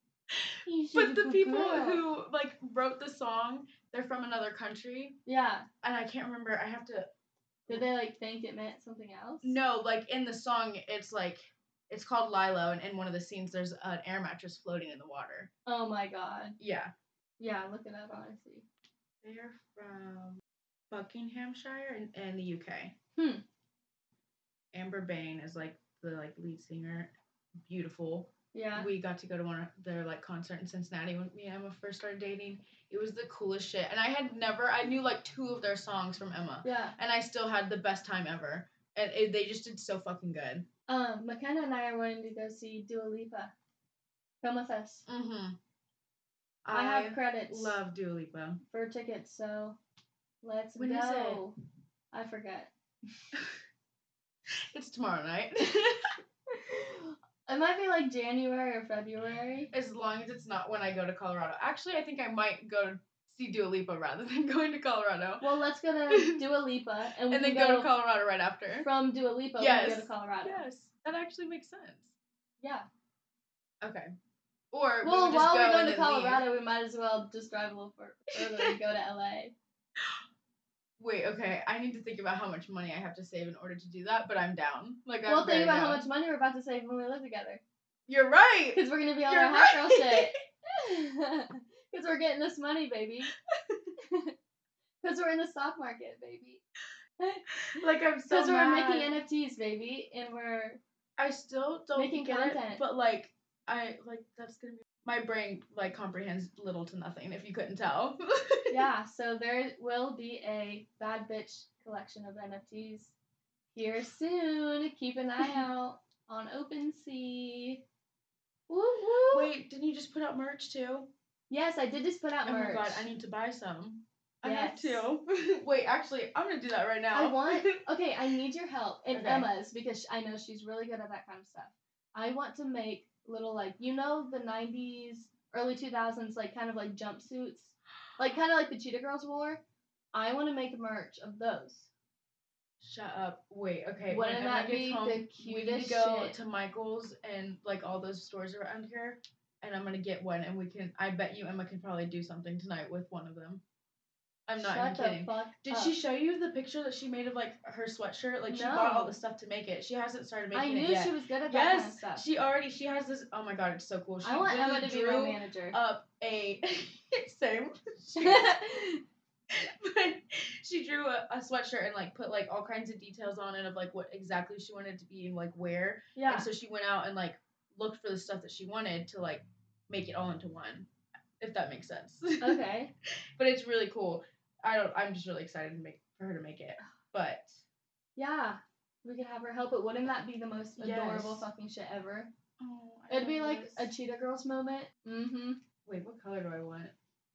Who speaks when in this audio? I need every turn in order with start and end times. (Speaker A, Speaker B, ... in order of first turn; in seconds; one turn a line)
Speaker A: 0.4-5.2
Speaker B: 0.7-2.0
Speaker B: 5.3-5.7
Speaker A: 5.8-7.1
Speaker B: 7.7-9.6
Speaker A: 9.4-15.5
Speaker B: 15.7-16.6
Speaker A: 16.6-16.9
Speaker B: 17.4-18.7
Speaker A: 19.2-22.9
Speaker B: 23.2-23.4
Speaker A: 24.7-27.1
Speaker A: 27.6-40.7
Speaker B: 28.5-28.9
Speaker B: 36.6-37.0
Speaker B: 40.9-43.5
Speaker B: 44.4-45.1
Speaker A: 45.1-45.6
Speaker A: 46.6-48.6
Speaker B: 46.7-47.8
Speaker B: 48.7-49.8
Speaker B: 50.4-51.5
Speaker A: 50.8-51.4
Speaker B: 52.1-52.7
Speaker A: 54.7-56.1
Speaker B: 56.5-59.7
Speaker A: 59.7-65.5
Speaker B: 65.4-67.9
Speaker A: 66.1-66.4
Speaker A: 67.3-68.9
Speaker B: 68.8-70.6
Speaker A: 69.6-72.1
Speaker B: 72.6-72.9
Speaker A: 73.8-74.1
Speaker A: 74.7-76.4
Speaker B: 75.0-79.5
Speaker A: 78.4-78.8
Speaker A: 81.0-86.1
Speaker B: 85.3-87.6
Speaker A: 88.1-90.3
Speaker B: 88.8-93.3
Speaker A: 93.5-93.9
Speaker B: 94.0-94.3
Speaker B: 95.0-96.6
Speaker A: 97.6-99.2
Speaker B: 98.3-100.8
Speaker A: 101.2-108.9
Speaker B: 102.0-102.8
Speaker B: 108.7-113.1
Speaker B: 113.7-117.8
Speaker B: 118.7-119.5
Speaker A: 119.3-121.1
Speaker B: 121.5-123.1
Speaker A: 122.5-127.8
Speaker B: 124.4-125.1
Speaker B: 127.1-139.6
Speaker A: 129.1-129.5
Speaker B: 140.1-141.9
Speaker A: 142.8-153.6
Speaker B: 144.1-146.4
Speaker A: 154.5-168.7
Speaker B: 154.6-155.9
Speaker B: 158.5-159.2
Speaker B: 160.5-162.2
Speaker B: 164.2-165.8
Speaker B: 168.2-169.0
Speaker A: 169.5-180.9
Speaker B: 176.2-176.5
Speaker A: 181.4-182.6
Speaker B: 182.4-182.9
Speaker A: 183.4-187.6
Speaker B: 188.2-192.3
Speaker A: 190.8-191.5
Speaker A: 192.6-193.9
Speaker B: 193.1-195.6
Speaker A: 195.9-196.9